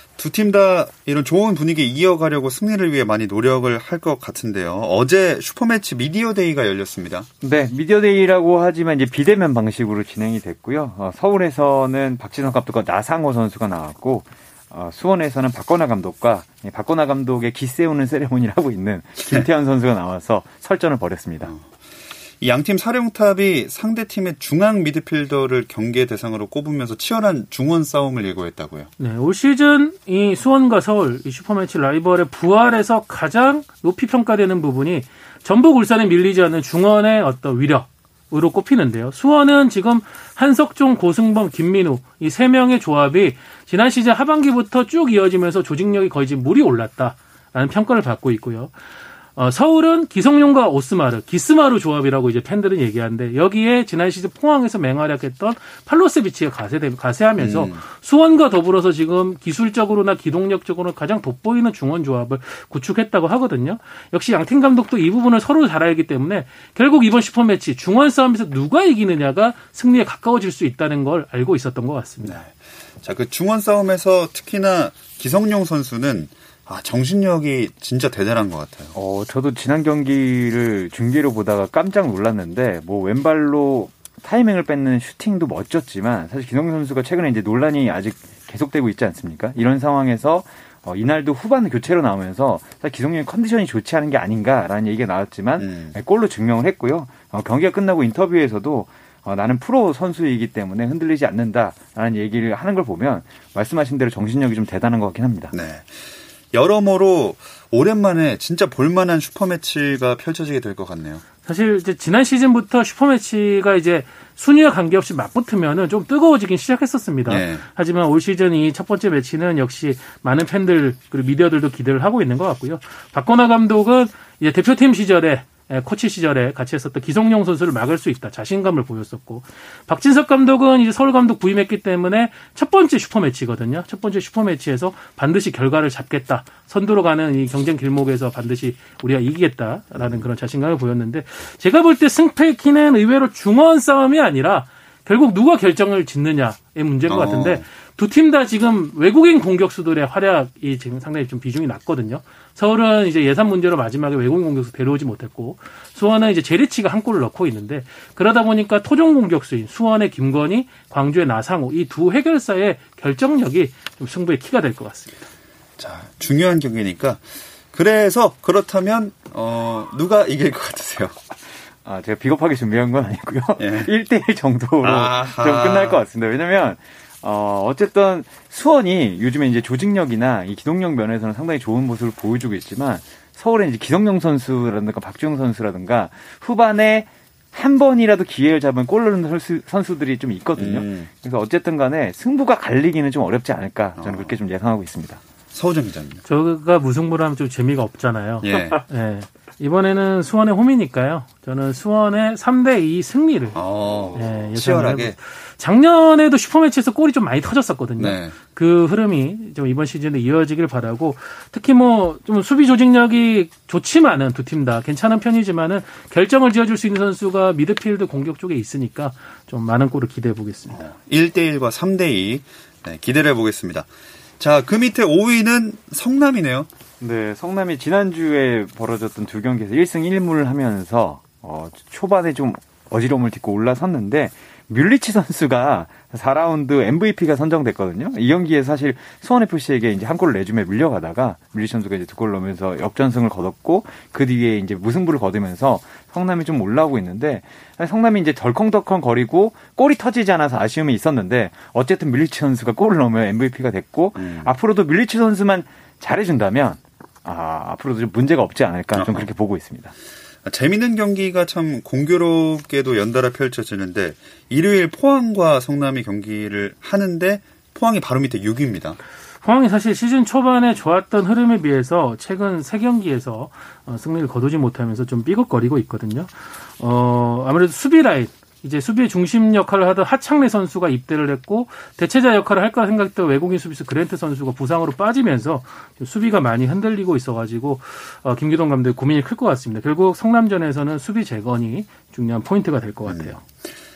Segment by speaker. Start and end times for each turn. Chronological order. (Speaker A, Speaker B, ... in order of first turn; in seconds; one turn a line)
Speaker A: 0.2-7.3
Speaker B: 7.4-21.5
Speaker A: 22.4-28.9
Speaker C: 29.0-48.7
Speaker C: 49.4-72.4
Speaker A: 57.4-57.8
Speaker A: 72.2-78.9
Speaker B: 78.9-105.5
Speaker A: 95.6-96.0
Speaker A: 105.5-111.2
Speaker C: 111.5-165.2
Speaker A: 117.3-117.6
Speaker A: 139.9-140.2
Speaker A: 147.1-147.6
Speaker A: 165.8-171.2
Speaker B: 171.8-195.2
Speaker A: 173.6-173.9
Speaker A: 174.8-176.0
Speaker A: 190.6-191.1
Speaker A: 194.0-194.4
Speaker A: 195.5-196.2
Speaker C: 196.3-203.6
Speaker A: 198.4-198.8
Speaker A: 203.6-205.2
Speaker C: 204.1-220.8
Speaker A: 208.0-208.3
Speaker A: 220.7-223.9
Speaker A: 224.4-226.7
Speaker B: 227.0-259.9
Speaker A: 254.2-254.5
Speaker A: 258.9-259.3
Speaker A: 260.4-269.0
Speaker C: 269.4-293.4
Speaker A: 293.1-293.4